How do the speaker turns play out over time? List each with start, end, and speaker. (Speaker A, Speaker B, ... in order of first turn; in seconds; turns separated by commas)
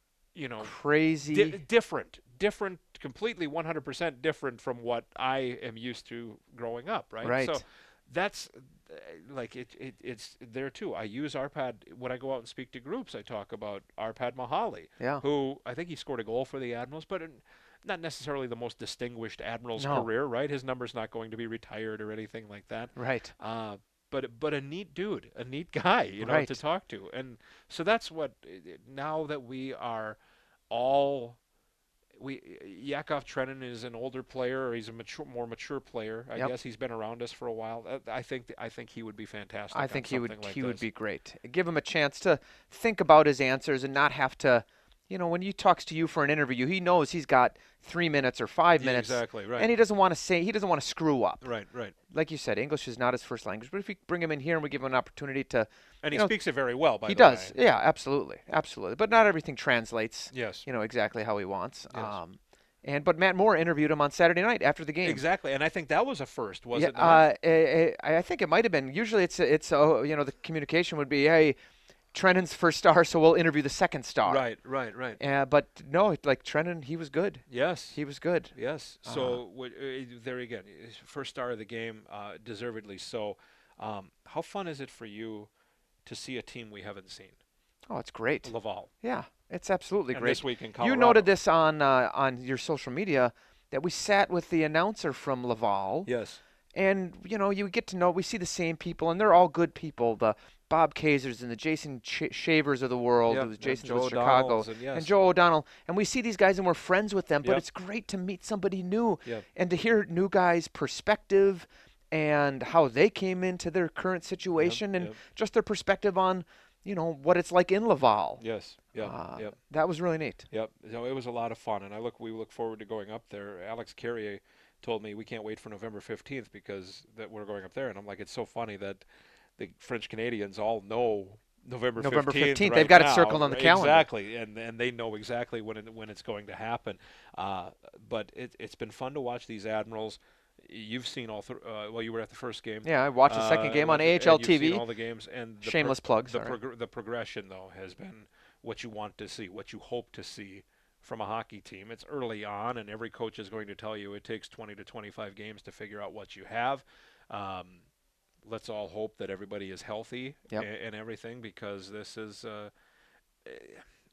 Speaker A: 0.3-0.8, Speaker B: 0.6-1.6, Speaker A: 1.3-30.2, Speaker B: 7.2-7.6, Speaker B: 19.8-20.1, Speaker B: 23.0-23.3, Speaker B: 26.2-26.6, Speaker A: 30.7-31.4, Speaker A: 32.2-40.8, Speaker B: 39.7-51.4, Speaker A: 48.8-49.7, Speaker A: 51.4-52.0, Speaker B: 52.1-56.3, Speaker A: 56.0-57.5, Speaker B: 57.1-65.2, Speaker A: 60.3-60.6, Speaker A: 65.0-67.2, Speaker B: 66.7-71.6, Speaker B: 72.1-74.5, Speaker A: 74.3-75.2, Speaker B: 75.2-78.5, Speaker A: 77.5-78.0, Speaker A: 78.5-85.5, Speaker B: 79.1-79.4, Speaker A: 86.1-87.4, Speaker B: 87.9-96.1, Speaker A: 88.5-88.9, Speaker A: 90.1-91.3, Speaker A: 96.1-96.4, Speaker B: 96.8-118.4, Speaker A: 103.3-105.2, Speaker A: 114.6-115.2, Speaker A: 118.4-119.5, Speaker B: 119.0-120.5, Speaker A: 120.5-129.0, Speaker A: 129.6-157.8, Speaker B: 132.0-134.1, Speaker B: 142.8-144.8, Speaker B: 145.6-146.6, Speaker A: 158.5-162.7, Speaker A: 163.4-163.8